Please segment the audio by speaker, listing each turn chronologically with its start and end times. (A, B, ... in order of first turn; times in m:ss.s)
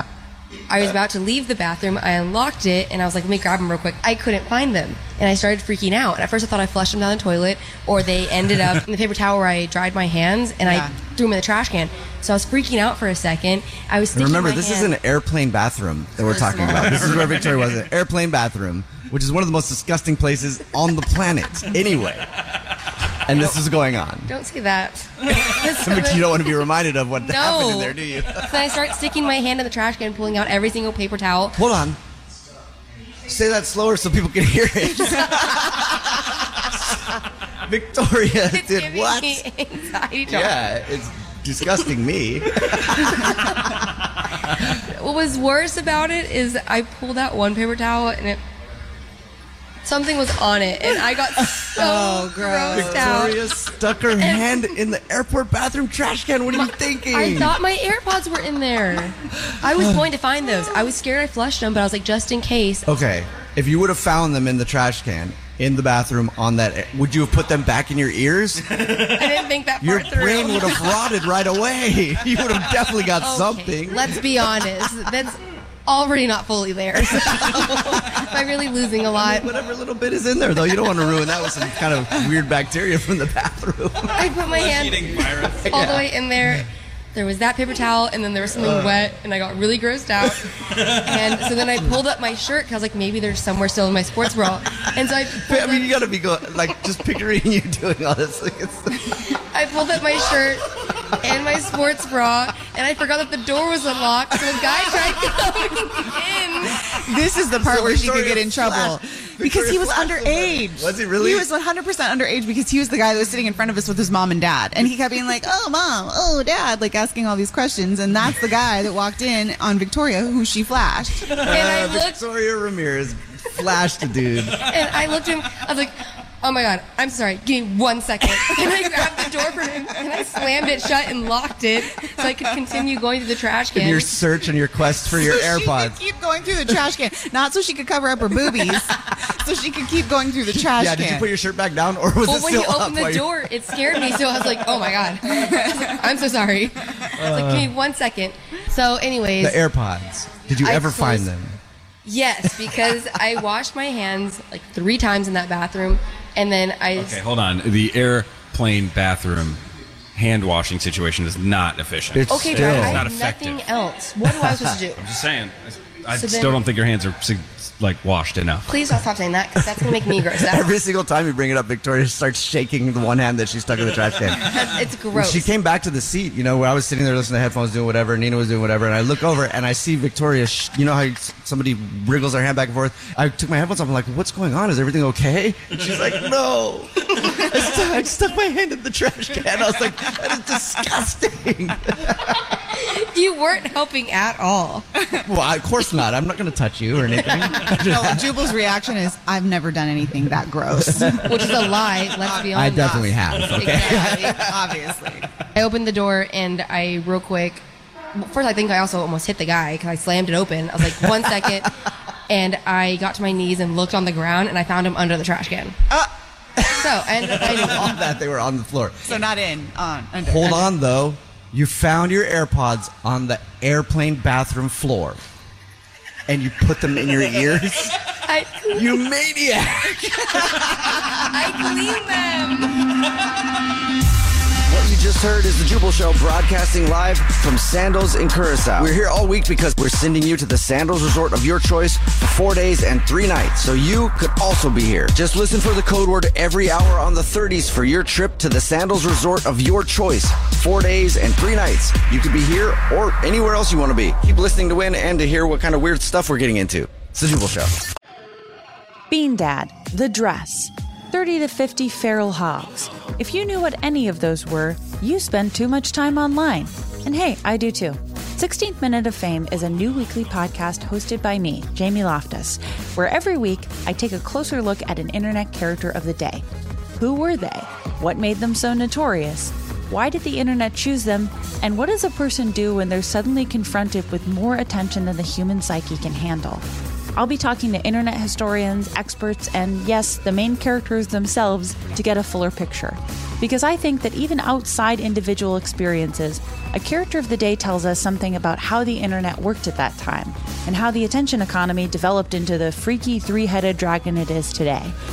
0:00.7-0:14.9 A
0:10.6-0:11.0 B
0:14.1-0:22.3 C
0:16.4-0:16.9 B
0:16.4-0:16.8 A
0:23.2-0:24.3 C
0:24.3-0:26.5 A
0:25.3-0:28.6 C
0:27.2-0:31.6 A
0:31.6-0:32.0 C
0:33.3-0:39.4 C
0:38.4-0:40.6 A
0:40.3-0:43.8 C
0:44.7-0:48.4 A
0:49.8-0:53.4 A
0:51.7-0:57.6 C
0:51.9-0:53.1 B
0:54.2-0:54.6 A
0:56.5-1:02.9 A
1:02.8-1:09.1 C
1:08.9-1:11.1 A
1:09.8-1:14.3 C
1:13.2-1:19.5 A
1:17.0-1:18.2 C
1:19.2-1:24.3 C
1:24.1-1:35.9 A
1:24.4-1:25.8 D
1:25.6-1:26.1 C
1:28.5-1:29.0 C
1:35.4-1:39.3 C
1:39.5-1:40.7 A
1:41.2-1:46.9 A
1:46.9-2:01.4 B
1:47.5-1:51.5 C
2:01.3-2:02.2 A
2:01.3-2:04.7 C
2:04.6-2:14.1 A
2:13.7-2:16.0 C
2:15.2-2:21.3 B
2:20.7-2:23.3 C
2:22.2-2:29.6 A
2:27.2-2:27.7 C
2:29.4-2:31.6 C
2:30.6-2:31.3 A
2:32.0-2:37.2 A
2:36.9-2:39.6 D
2:40.1-2:43.6 D
2:42.1-2:43.1 C
2:42.2-2:45.0 A
2:44.5-2:44.7 C
2:44.5-2:48.9 D
2:46.1-2:46.6 A
2:48.6-2:50.7 A
2:50.3-3:12.4 C
2:54.3-2:55.5 A
3:12.7-3:14.9 A
3:15.2-3:18.4 C
3:17.7-3:25.3 B
3:20.8-3:21.5 C
3:21.2-3:24.5 A
3:22.5-3:24.6 C
3:25.5-3:27.6 A
3:28.2-3:31.7 A
3:32.3-3:35.8 A
3:36.6-3:37.9 A
3:36.6-3:39.2 C
3:39.0-3:40.7 B
3:40.2-3:45.2 C
3:46.3-3:48.1 C
3:48.2-3:49.0 A
3:48.7-3:51.3 C
3:50.5-3:52.7 A
3:54.6-4:17.7 C
4:19.1-4:36.4 E
4:37.0-5:04.9 E